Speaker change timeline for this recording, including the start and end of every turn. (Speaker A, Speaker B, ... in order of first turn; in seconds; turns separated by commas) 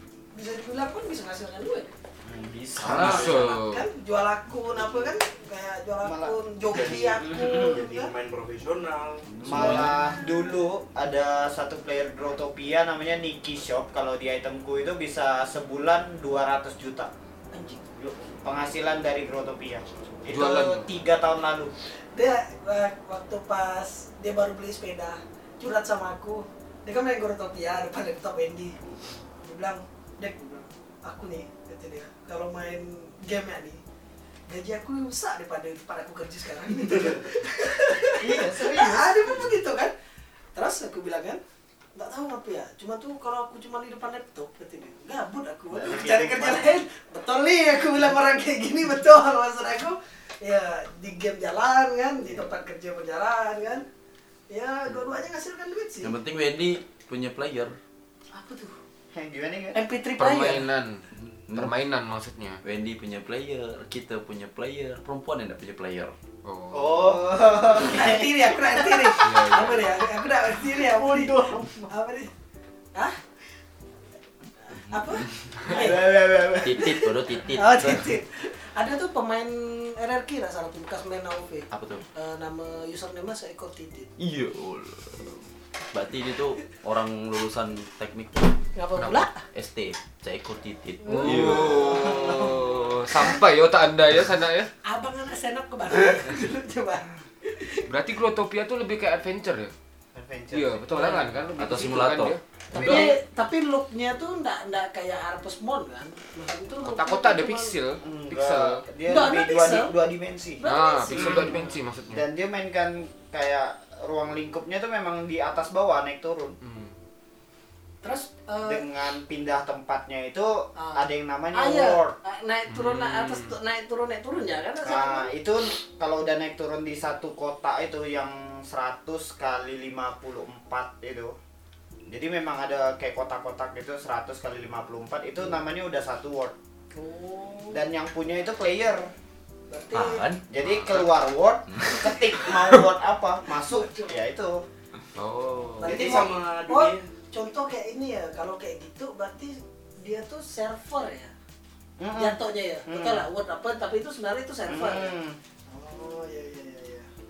Speaker A: 0.3-1.9, Speaker B: 2.2-3.5, Speaker C: 2.8-3.5, Speaker D: 2.8-3.9, Speaker A: 3.0-8.1, Speaker E: 4.8-5.1, Speaker B: 6.0-6.4, Speaker E: 6.7-9.3, Speaker B: 7.3-7.8, Speaker C: 9.3-10.0, Speaker B: 9.4-17.1, Speaker A: 9.6-10.6, Speaker A: 17.5-17.8, Speaker B: 18.0-21.7, Speaker D: 20.3-20.9, Speaker A: 22.1-28.8, Speaker A: 29.4-33.8, Speaker A: 34.5-39.9, Speaker B: 38.2-39.3, Speaker A: 40.5-41.4, Speaker A: 42.0-53.9, Speaker B: 45.8-46.6, Speaker E: 45.9-46.2, Speaker A: 54.5-56.2, Speaker C: 56.0-57.8, Speaker A: 58.3-58.8, Speaker B: 59.1-59.8, Speaker A: 59.7-60.7, Speaker D: 60.2-62.6, Speaker C: 62.6-66.2, Speaker D: 66.4-67.2, Speaker B: 66.7-69.2, Speaker A: 67.8-72.3, Speaker D: 69.2-70.0, Speaker B: 70.7-71.9, Speaker A: 74.6-84.1, Speaker C: 74.9-75.5, Speaker B: 75.7-77.0, Speaker C: 76.6-78.1, Speaker C: 81.7-82.1, Speaker C: 84.2-88.7, Speaker A: 88.8-89.4, Speaker D: 89.0-89.2, Speaker C: 89.5-91.9, Speaker D: 91.0-94.7, Speaker A: 91.1-92.6, Speaker B: 91.9-92.5, Speaker A: 94.8-97.8, Speaker D: 97.9-99.7, Speaker B: 100.2-101.4, Speaker D: 100.5-103.2, Speaker C: 101.6-102.4, Speaker A: 102.7-107.8, Speaker D: 106.8-108.8, Speaker B: 108.0-111.6, Speaker A: 109.1-110.0, Speaker A: 110.6-111.8, Speaker D: 110.6-112.2, Speaker B: 112.1-116.6, Speaker D: 116.6-116.9, Speaker A: 118.0-118.8, Speaker B: 118.6-122.2, Speaker A: 120.8-125.3, Speaker D: 122.7-123.6, Speaker B: 124.8-131.3, Speaker B: 132.1-136.6, Speaker A: 136.9-137.8, Speaker B: 137.7-139.1, Speaker A: 139.7-140.2, Speaker C: 139.9-141.1, Speaker B: 140.5-144.6, Speaker C: 141.7-142.1, Speaker A: 143.5-144.2, Speaker D: 145.2-146.2, Speaker A: 145.8-151.3, Speaker E: 145.8-147.1, Speaker B: 152.0-153.3, Speaker A: 152.2-155.1, Speaker B: 154.7-155.4, Speaker A: 155.7-157.1